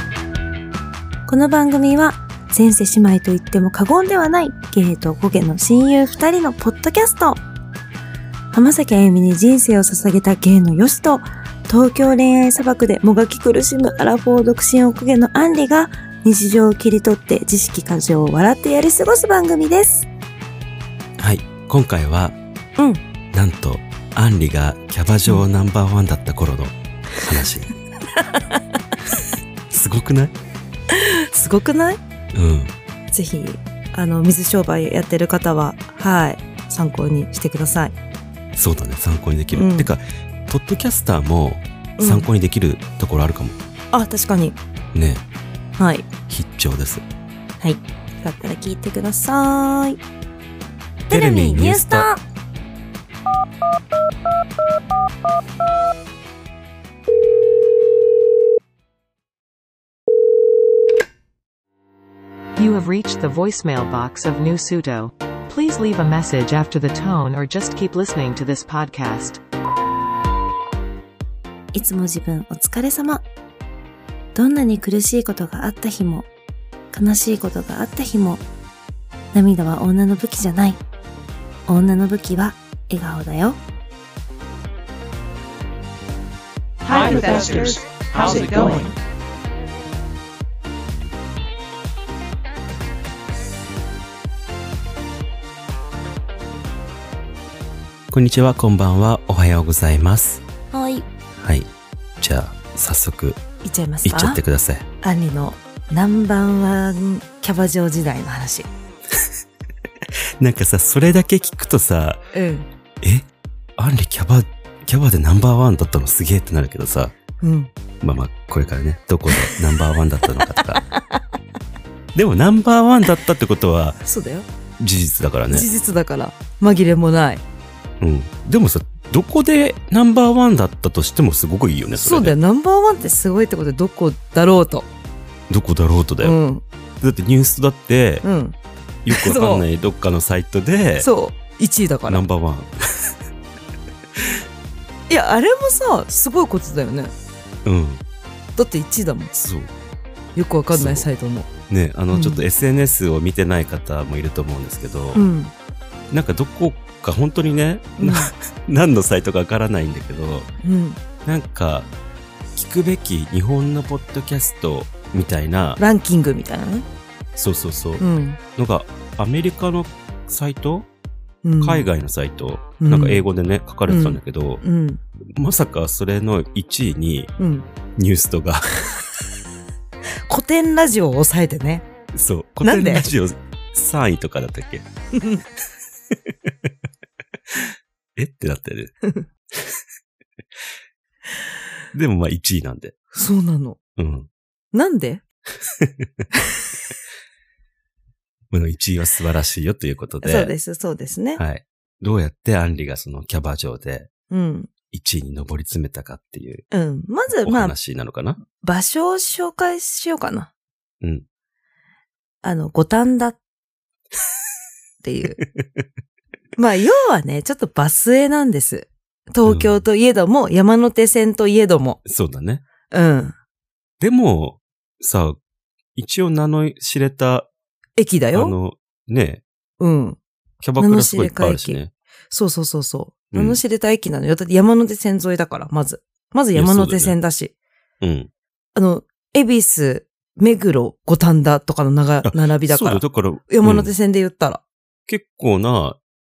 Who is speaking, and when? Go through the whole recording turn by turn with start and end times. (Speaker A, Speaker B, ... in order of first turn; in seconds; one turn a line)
Speaker A: 1.3-7.4
Speaker A: 8.5-20.1
Speaker B: 21.2-22.4
Speaker B: 23.3-27.7
Speaker A: 28.1-28.6
Speaker B: 29.7-30.3
Speaker A: 30.9-32.0
Speaker B: 32.3-32.7
Speaker A: 33.1-38.0
Speaker B: 38.5-43.6
Speaker A: 39.5-39.9
Speaker A: 42.0-42.3
Speaker A: 43.9-44.6
Speaker B: 44.9-45.2
Speaker A: 45.8-46.1
Speaker B: 46.3-47.0
Speaker A: 47.6-50.0
Speaker B: 51.1-52.1
Speaker A: 51.1-52.2
Speaker C: 62.5-69.4
Speaker A: 71.7-73.2
Speaker A: 74.3-76.3
Speaker A: 76.9-78.4
Speaker A: 79.3-80.8
Speaker A: 81.7-83.6
Speaker D: 86.9-88.8
Speaker B: 98.1-100.4
Speaker A: 100.7-101.1
Speaker B: 101.4-101.7
Speaker B: 102.2-103.4
Speaker A: 103.6-104.4
Speaker B: 104.0-104.8
Speaker A: 105.0-108.7
Speaker B: 110.4-112.2
Speaker A: 112.3-112.7
Speaker B: 113.0-117.1
Speaker A: 117.4-117.7
Speaker B: 118.0-120.8
Speaker A: 120.2-121.2
Speaker B: 122.1-124.0
Speaker A: 124.0-124.5
Speaker B: 124.8-125.7
Speaker A: 125.5-127.4
Speaker B: 128.0-132.3
Speaker A: 131.9-134.9
Speaker B: 135.5-136.3
Speaker A: 136.2-136.6
Speaker B: 137.0-138.2
Speaker A: 138.2-138.6
Speaker B: 139.0-141.1
Speaker A: 139.1-139.6
Speaker A: 141.0-142.2
Speaker B: 142.1-143.1
Speaker B: 144.2-144.4
Speaker A: 145.1-147.1
Speaker B: 147.6-148.0
Speaker A: 148.6-149.3
Speaker B: 149.3-149.7
Speaker A: 150.3-151.5
Speaker B: 150.7-151.1
Speaker B: 151.7-155.2
Speaker A: 152.1-152.4
Speaker A: 155.1-155.5
Speaker B: 156.1-160.5
Speaker A: 158.0-158.3
Speaker A: 160.6-161.0
Speaker B: 161.2-161.9
Speaker B: 162.5-165.8
Speaker A: 165.8-166.8
Speaker B: 167.3-168.0
Speaker A: 168.0-168.4
Speaker B: 168.6-170.9
Speaker A: 171.4-171.9
Speaker B: 171.6-174.6
Speaker A: 172.8-173.2
Speaker A: 173.9-175.0
Speaker B: 175.3-177.3
Speaker A: 177.4-177.7
Speaker B: 177.9-178.7
Speaker A: 180.3-181.8
Speaker B: 182.1-184.8
Speaker A: 182.6-183.1
Speaker A: 185.1-185.4
Speaker B: 186.1-186.7
Speaker B: 187.5-188.9
Speaker B: 191.9-192.9
Speaker A: 193.1-193.8
Speaker B: 194.0-194.3
Speaker A: 194.7-195.2
Speaker B: 195.7-196.2
Speaker B: 198.5-200.5
Speaker A: 200.2-201.4
Speaker B: 201.3-204.1
Speaker A: 204.3-204.7
Speaker B: 204.9-206.6
Speaker A: 206.7-207.8
Speaker B: 207.4-208.4
Speaker A: 208.4-210.5
Speaker A: 212.4-213.4
Speaker A: 215.0-215.4
Speaker B: 215.6-215.8
Speaker A: 216.6-222.0
Speaker B: 219.4-219.8
Speaker B: 222.0-222.6
Speaker A: 222.9-223.3
Speaker B: 224.0-225.4
Speaker B: 225.9-227.5
Speaker A: 228.0-228.6
Speaker B: 228.3-229.4
Speaker A: 229.8-230.2
Speaker B: 230.6-231.9
Speaker A: 230.8-231.8
Speaker A: 232.3-237.5
Speaker B: 233.3-233.6
Speaker B: 236.5-237.1
Speaker B: 238.0-238.3
Speaker A: 238.8-244.6
Speaker B: 242.2-243.9
Speaker B: 245.1-246.0